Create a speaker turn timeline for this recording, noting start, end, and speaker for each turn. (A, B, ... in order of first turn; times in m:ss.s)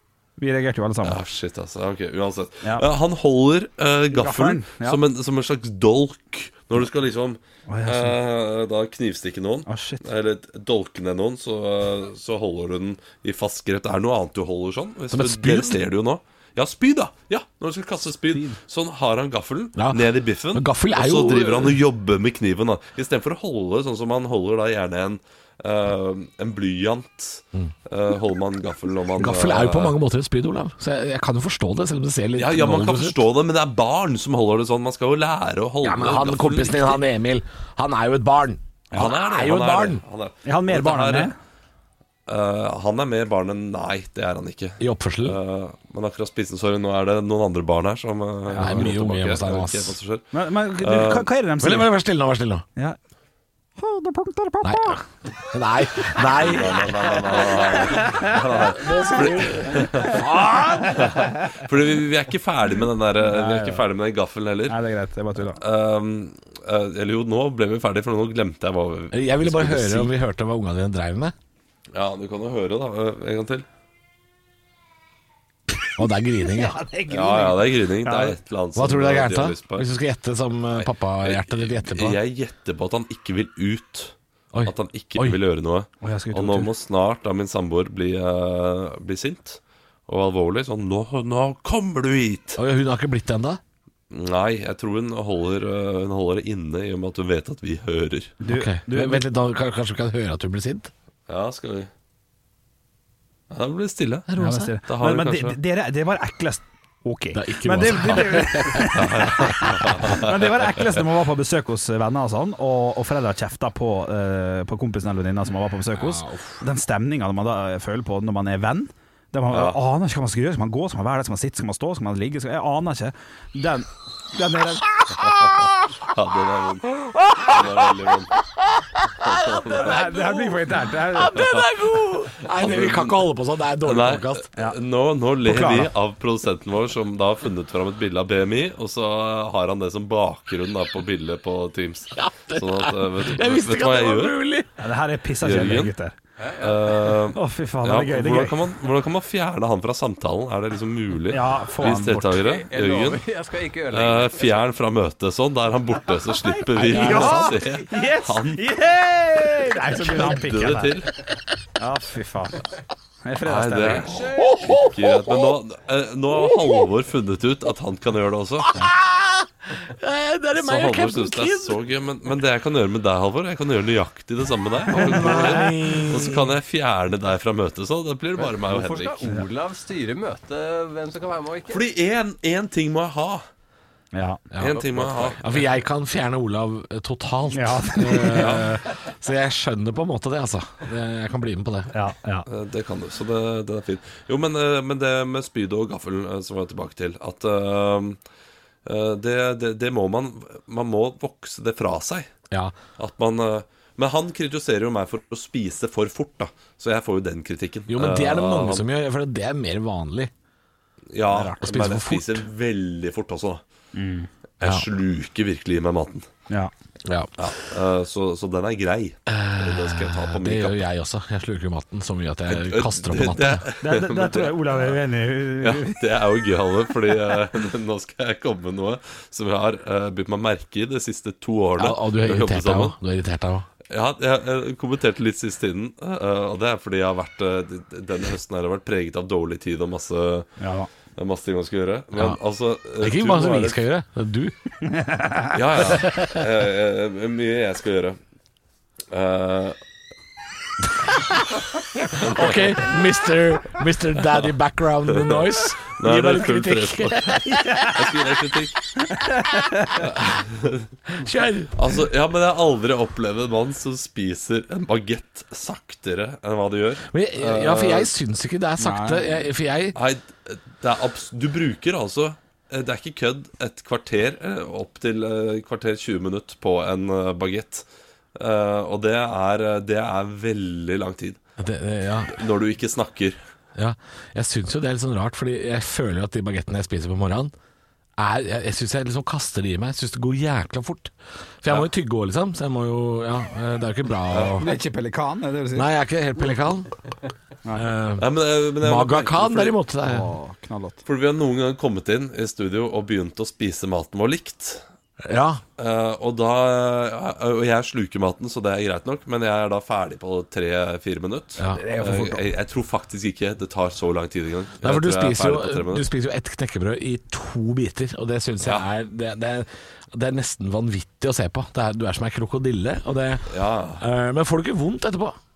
0:00.4-0:01.2 A
0:01.0-0:29.9 B
0:04.1-0:05.0 A
0:07.7-0:08.2 A
0:09.6-0:10.0 A
0:15.1-0:15.8 C
0:18.3-0:18.6 A
0:19.8-0:21.8 C
0:29.2-0:33.2 C
0:32.3-0:37.0 B
0:35.8-0:40.0 C
0:38.9-0:41.3 B
0:40.4-0:41.3 A
0:42.3-0:51.3 B
0:44.8-0:45.4 C
0:48.5-0:48.9 A
0:48.6-0:50.0 C
0:50.3-0:51.9 A
0:51.6-0:52.6 C
0:53.8-0:55.0 A
0:54.6-0:57.3 C
0:56.4-1:00.2 B
0:57.6-0:59.0 A
0:58.6-1:00.3 C
0:59.7-1:01.6 A
1:00.9-1:04.8 B
1:03.2-1:03.8 A
1:04.7-1:05.6 A
1:05.6-1:10.1 B
1:09.1-1:11.3 C
1:11.9-1:13.6 B
1:15.9-1:16.8 C
1:16.5-1:18.4 A
1:17.1-1:19.9 B
1:18.8-1:22.2 C
1:20.8-1:32.6 B
1:24.5-1:25.4 C
1:26.0-1:26.7 A
1:32.6-1:33.6 C
1:34.1-1:38.3 B
1:38.4-1:39.2 A
1:38.5-1:40.9 C
1:41.3-1:41.9 B
1:43.5-1:44.3 B
1:44.3-1:44.7 C
1:44.4-2:05.7 A
1:44.9-1:45.6 B
1:47.3-1:49.0 C
1:48.9-1:51.0 B
1:56.0-1:56.6 C
1:59.5-1:59.8 B
2:06.0-2:08.3 B
2:07.2-2:07.5 A
2:09.2-2:14.5 C
2:09.2-2:10.0 B
2:09.8-2:11.4 A
2:12.4-2:13.3 B
2:13.8-2:24.4 B
2:15.4-2:15.9 A
2:22.1-2:24.7 C
2:24.8-2:26.1 A
2:25.4-2:25.9 B
2:26.4-2:27.2 D
2:26.6-2:33.2 B
2:27.3-2:28.6 A
2:31.3-2:32.4 A
2:32.3-2:34.6 D
2:33.9-2:38.7 B
2:36.8-2:40.9 A
2:36.9-2:37.5 C
2:40.0-2:41.1 B
2:41.8-2:42.7 A
2:43.2-2:44.1 A
2:43.4-2:48.8 B
2:44.1-2:44.6 D
2:44.4-2:45.5 C
2:46.3-2:46.9 C
2:48.6-2:51.8 C
2:50.5-2:59.2 B
2:54.9-2:56.5 C
2:54.9-2:56.1 A
2:58.4-3:01.8 D
3:01.7-3:03.4 B
3:04.1-3:04.4 A
3:04.5-3:11.9 C
3:04.6-3:05.5 B
3:04.7-3:05.3 D
3:07.5-3:08.7 A
3:08.3-3:08.7 B
3:11.9-3:12.5 A
3:12.5-3:18.2 B
3:18.8-3:22.3 B
3:23.0-3:28.8 B
3:27.9-3:30.3 C
3:31.1-3:33.6 B
3:31.4-3:32.4 C
3:33.9-3:34.3 A
3:34.6-3:36.3 B
3:34.6-3:34.9 C
3:37.0-3:37.3 C
3:37.4-3:40.8 B
3:39.3-3:43.6 C
3:42.5-3:45.0 B
3:43.8-3:46.0 A
3:45.6-3:53.0 B
3:51.8-3:53.7 C
3:53.9-4:03.8 B
4:00.6-4:00.9 A
4:03.0-4:04.5 C
4:04.9-4:05.5 A
4:05.5-4:08.2 B
4:05.8-4:06.5 C
4:09.1-4:09.8 B
4:11.1-4:11.4 C
4:12.1-4:18.2 C
4:12.1-4:12.9 B
4:15.1-4:18.8 B
4:19.3-4:20.0 A
4:20.0-4:20.9 B
4:21.1-4:21.8 C
4:21.7-4:28.1 B
4:27.1-4:30.0 C
4:28.8-4:29.3 A
4:29.9-4:41.4 B
4:41.6-4:42.4 C
4:42.3-4:43.4 B
4:43.8-4:47.5 C
4:48.2-4:54.7 C
4:54.3-4:54.6 B
4:54.6-4:55.9 A
4:55.7-4:56.9 C
4:57.7-4:58.2 C
4:58.2-4:59.8 B
4:58.8-5:00.3 C
5:00.0-5:01.0 A
5:01.0-5:04.8 B
5:05.2-5:05.6 C
5:05.8-5:16.1 B
5:11.7-5:12.4 A
5:14.8-5:25.4 C
5:18.6-5:18.9 B
5:23.5-5:24.0 B